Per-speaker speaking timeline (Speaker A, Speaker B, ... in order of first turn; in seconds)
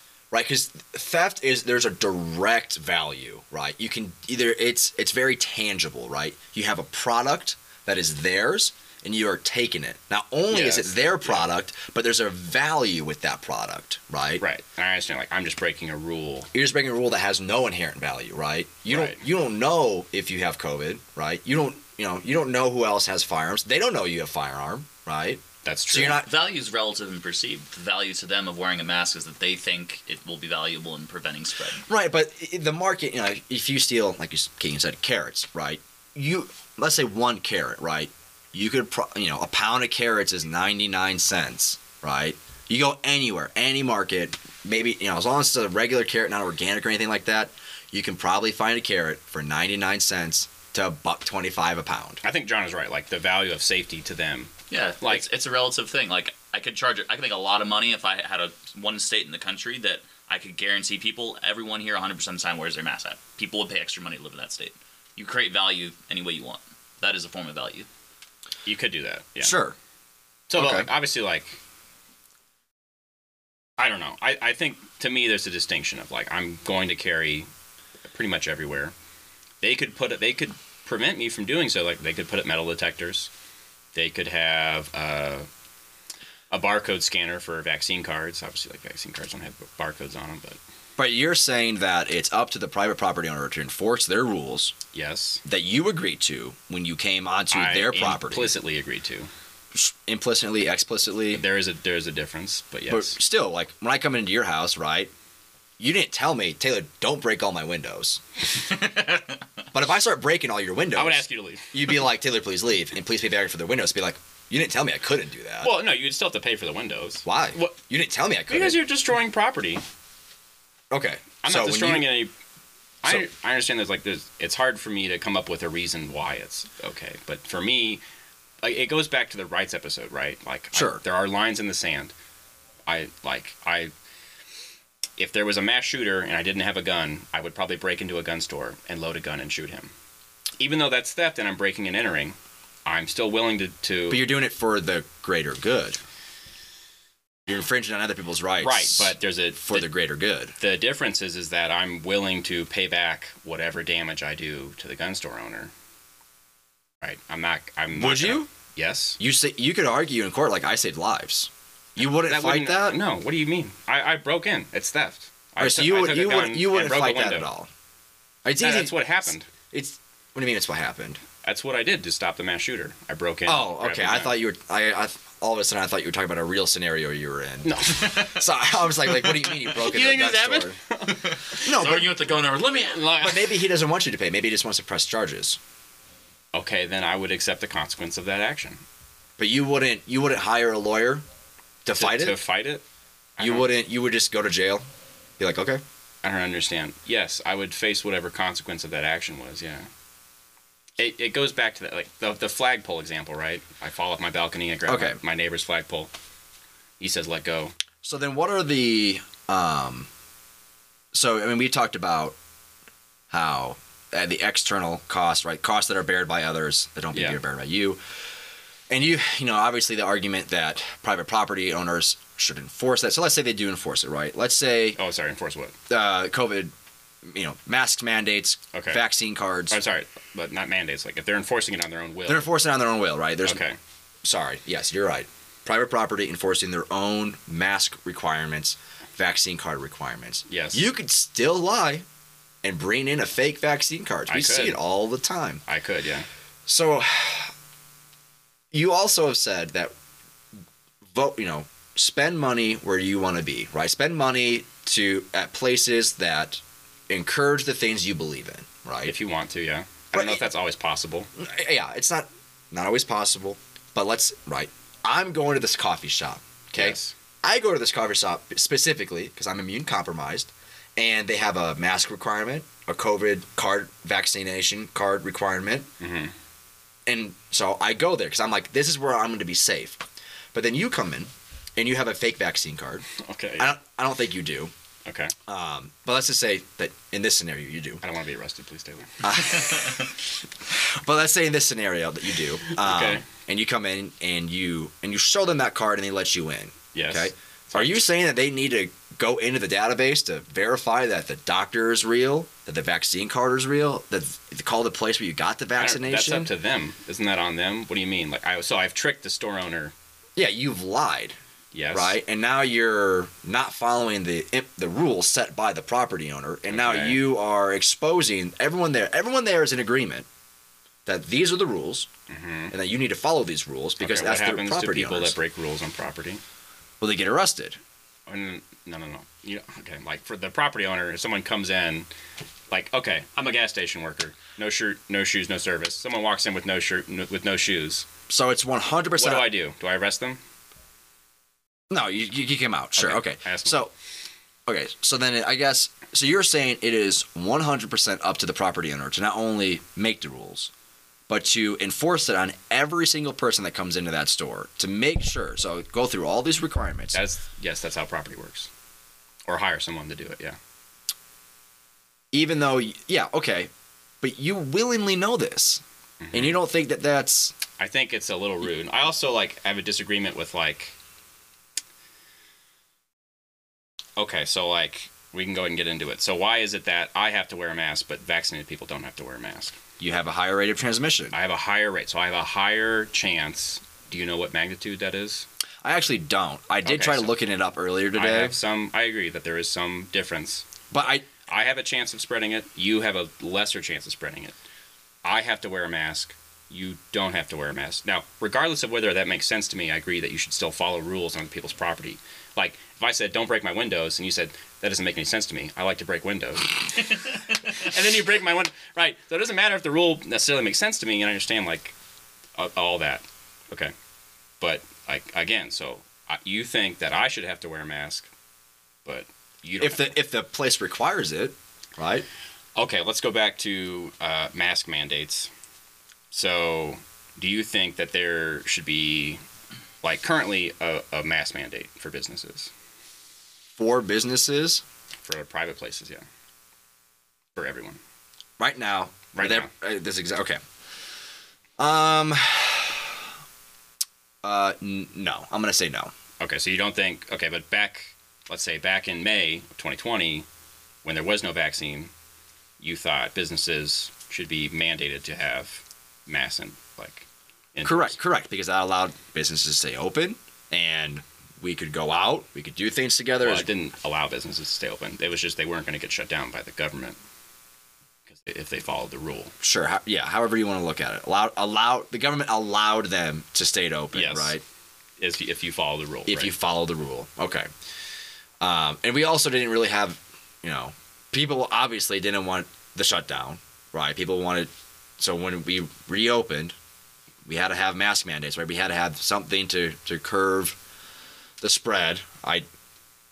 Speaker A: 0.3-14.4, 16.5-26.3, 31.9-52.2, 69.4-69.8, 70.5-70.9, 91.0-94.8, 95.5-98.5, 99.7-101.4, 102.9-105.1, 105.8-108.2, 109.7-115.7, 117.2-118.8, 120.9-122.1, 130.7-131.0, 144.1-146.0, 147.5-150.6, 157.9-158.5, 159.2-163.0, 165.6-167.7, 168.4-171.2, 173.5-180.8, 181.6-182.2, 183.2-185.6, 189.4-191.2, 191.8-192.4, 193.4-194.8, 195.4-195.8, 204.9-205.2, 208.0-210.1, 211.1-212.4, 213.3-218.0, 218.9-225.0, 225.9-226.7, 227.2-229.8, 232.3-233.6, 234.2-242.1, 242.6-245.6, 246.7-247.5, 248.7-249.9, 251.1-259.1, 260.1-260.4, 261.4-275.9, 277.1-283.1, 283.6-284.7, 285.5-288.0, 289.2-306.5, 310.4-311.4, 311.9-320.3, 321.1-322.1, 322.7-325.4, 327.0-327.8, 338.3-339.5, 341.9-343.9, 344.7-350.7, 351.3-357.2, 362.3-363.7, 364.2-365.8, 366.3-367.6, 380.0-381.4, 385.8-388.6, 390.9-391.2, 419.8-422.3, 433.8-434.8, 438.6-440.6, 441.8-443.3, 444.4-446.1, 457.9-463.7, 469.6-474.6, 476.3-477.7, 478.6-486.8, 487.4-490.8, 491.6-492.7
Speaker B: 10.5-11.5, 14.4-16.5, 18.9-19.2, 25.6-26.2, 52.2-55.3, 68.7-69.6, 70.5-71.6, 73.8-77.5, 78.0-78.9, 79.6-83.3, 83.9-85.5, 86.5-90.6, 94.9-95.4, 97.5-99.3, 101.3-103.2, 111.0-112.0, 115.6-117.8, 118.5-119.8, 121.4-122.3, 123.0-128.0, 128.6-132.1, 132.9-133.9, 135.2-139.9, 140.6-144.2, 148.6-149.9, 150.6-155.7, 157.0-159.2, 162.0-167.5, 168.6-169.5, 171.4-174.4, 177.6-178.4, 179.1-182.1, 182.7-183.5, 186.5-188.8, 191.9-192.8, 193.4-193.7, 196.2-199.9, 201.0-206.1, 207.0-207.7, 217.1-217.4, 225.0-225.8, 228.7-229.0, 229.7-232.5, 233.4-233.8, 240.5-240.8, 244.3-244.8, 245.7-246.3, 259.1-261.3, 266.7-267.1, 276.0-276.3, 283.2-283.7, 285.1-285.3, 288.0-290.0, 292.6-293.3, 296.9-298.0, 305.8-309.9, 311.7-312.2, 316.7-317.2, 322.3-322.7, 324.0-326.4, 328.3-332.1, 332.7-338.1, 339.2-340.4, 343.0-343.8, 357.1-358.7, 359.5-360.6, 366.2-366.6, 367.8-371.0, 374.2-379.8, 381.3-385.5, 386.8-387.4, 388.1-390.7, 391.4-394.6, 395.2-411.9, 412.6-413.9, 414.6-418.3, 419.1-420.2, 422.8-425.5, 426.3-429.4, 430.0-432.7, 435.2-436.2, 437.6-438.0, 439.3-439.7, 446.4-450.5, 451.0-452.1, 452.8-458.2, 463.4-467.2, 468.3-469.5, 474.1-474.6, 475.2-476.6
Speaker C: 26.2-31.9, 54.7-67.9, 108.7-109.4, 177.9-178.4, 181.1-183.1